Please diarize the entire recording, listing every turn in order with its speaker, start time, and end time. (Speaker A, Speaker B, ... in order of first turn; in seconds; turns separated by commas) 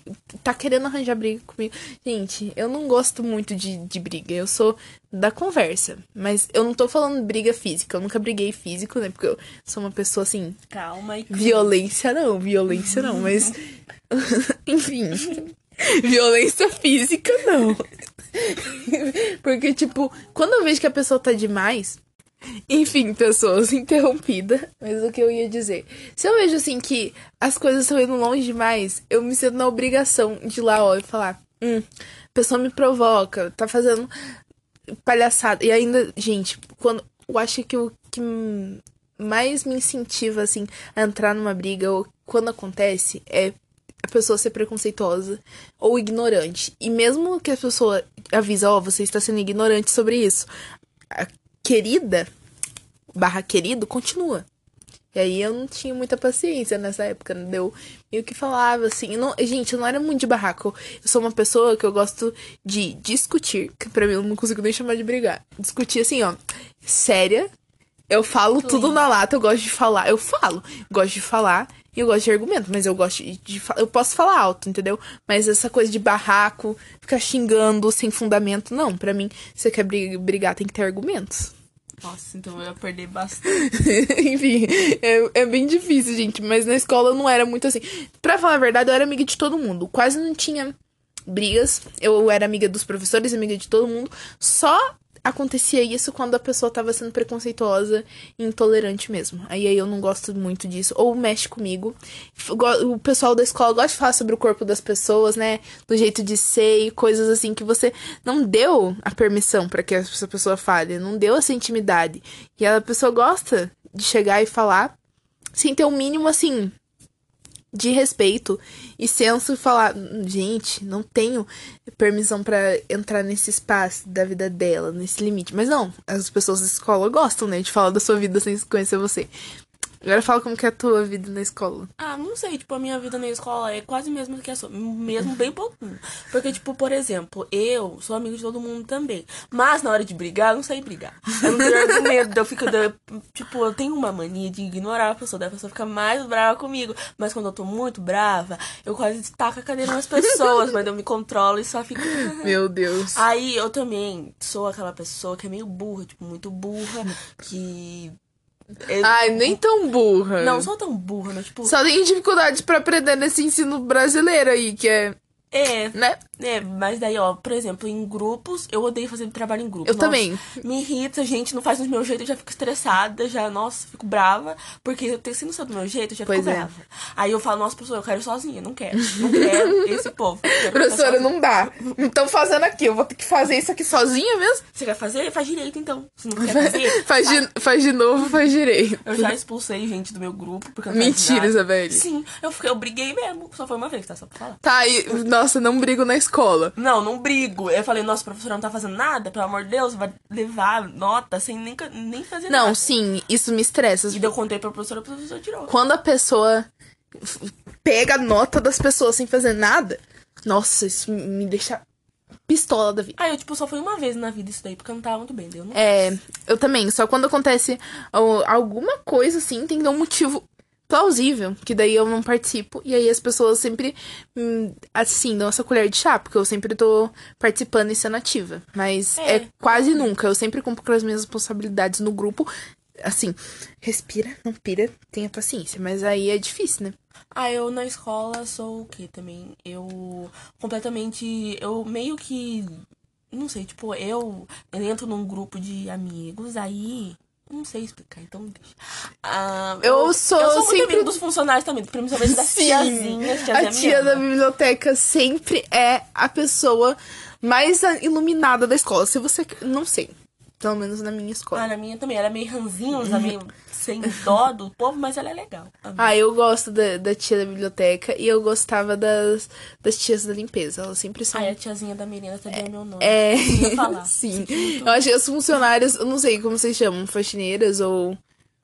Speaker A: 0.4-10.6, Speaker B: 10.7-11.8, Speaker A: 11.3-13.6, Speaker A: 14.1-22.0, Speaker A: 22.7-34.1, Speaker A: 35.0-43.5, Speaker A: 44.0-50.5, Speaker A: 51.1-52.3, Speaker A: 53.1-54.4, Speaker A: 55.1-67.5, Speaker A: 68.1-81.5, Speaker B: 68.6-69.0, Speaker B: 82.0-83.7, Speaker A: 83.5-90.7, Speaker A: 91.3-114.9, Speaker A: 115.5-116.7, Speaker A: 117.7-129.3, Speaker A: 130.0-131.9, Speaker B: 132.0-152.6, Speaker A: 152.2-153.2, Speaker B: 153.1-158.2, Speaker B: 158.8-159.6, Speaker A: 159.0-160.7, Speaker B: 160.4-161.8, Speaker A: 161.6-165.2, Speaker B: 165.5-182.0, Speaker A: 165.9-166.2, Speaker A: 169.8-170.5, Speaker A: 176.3-176.7, Speaker A: 179.2-179.9, Speaker A: 180.7-184.6, Speaker B: 184.7-187.5, Speaker A: 186.4-189.3, Speaker B: 189.0-194.6, Speaker A: 190.9-192.0, Speaker A: 194.6-196.7, Speaker B: 196.8-202.9, Speaker A: 202.5-204.3, Speaker B: 204.1-205.7, Speaker A: 205.7-211.8, Speaker A: 212.5-213.2, Speaker B: 213.2-215.9, Speaker A: 215.7-232.5, Speaker B: 229.2-230.1, Speaker A: 233.0-236.9, Speaker B: 237.3-254.2, Speaker A: 249.8-251.1, Speaker A: 252.2-261.7, Speaker B: 261.5-266.1, Speaker A: 263.0-263.3, Speaker A: 266.0-271.5, Speaker B: 271.3-275.0, Speaker A: 273.0-278.2